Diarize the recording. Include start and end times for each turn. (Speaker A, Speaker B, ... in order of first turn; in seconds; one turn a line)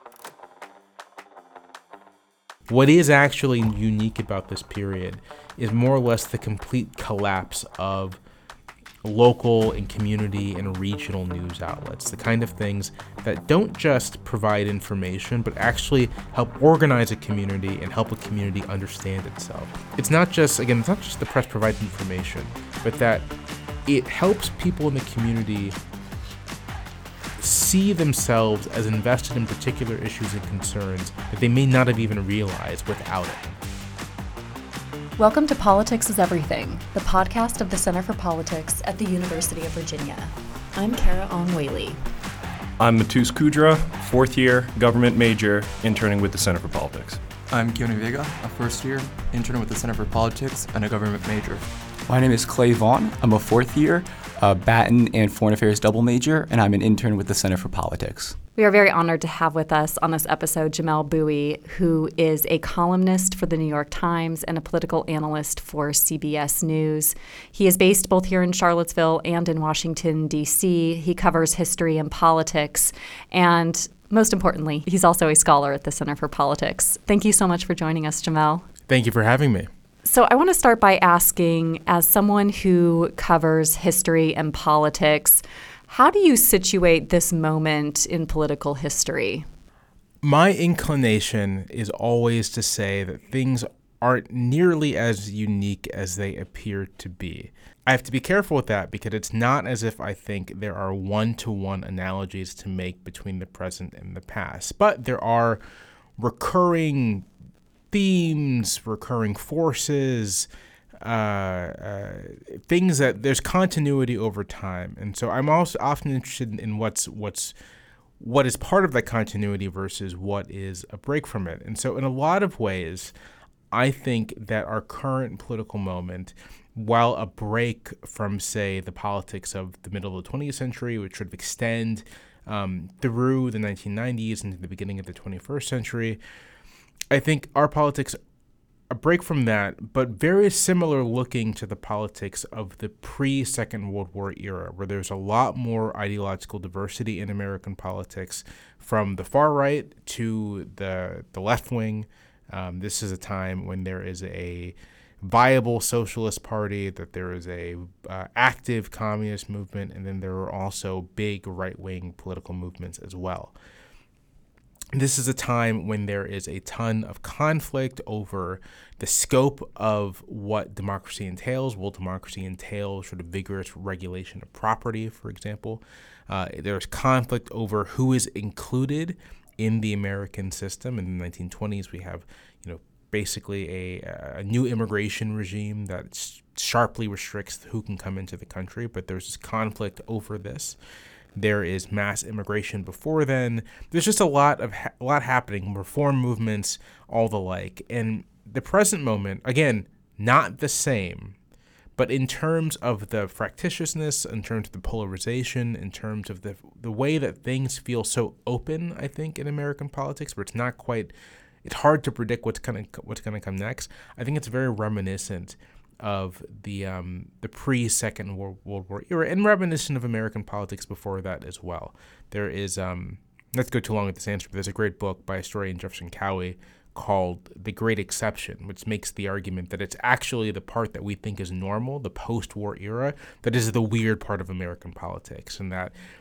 Speaker A: 2.7-8.2
Speaker A: 9.0-23.3
Speaker A: 23.9-25.7
Speaker A: 27.4-33.5
Speaker B: 35.2-42.0
Speaker C: 42.8-47.2
Speaker D: 47.5-51.6
Speaker E: 52.1-58.4
Speaker B: 58.5-78.6
Speaker A: 78.9-79.7
Speaker B: 80.0-89.5
Speaker A: 90.2-105.6
Speaker A: 106.2-107.2
Speaker A: 107.9-110.5
Speaker A: 111.0-117.5
Speaker A: 118.2-123.1
Speaker A: 123.7-136.2
Speaker A: 137.1-138.2
Speaker A: 138.9-163.5
Speaker A: 164.9-190.8
Speaker A: 191.3-201.3
Speaker A: 202.0-211.1
Speaker A: 211.6-235.9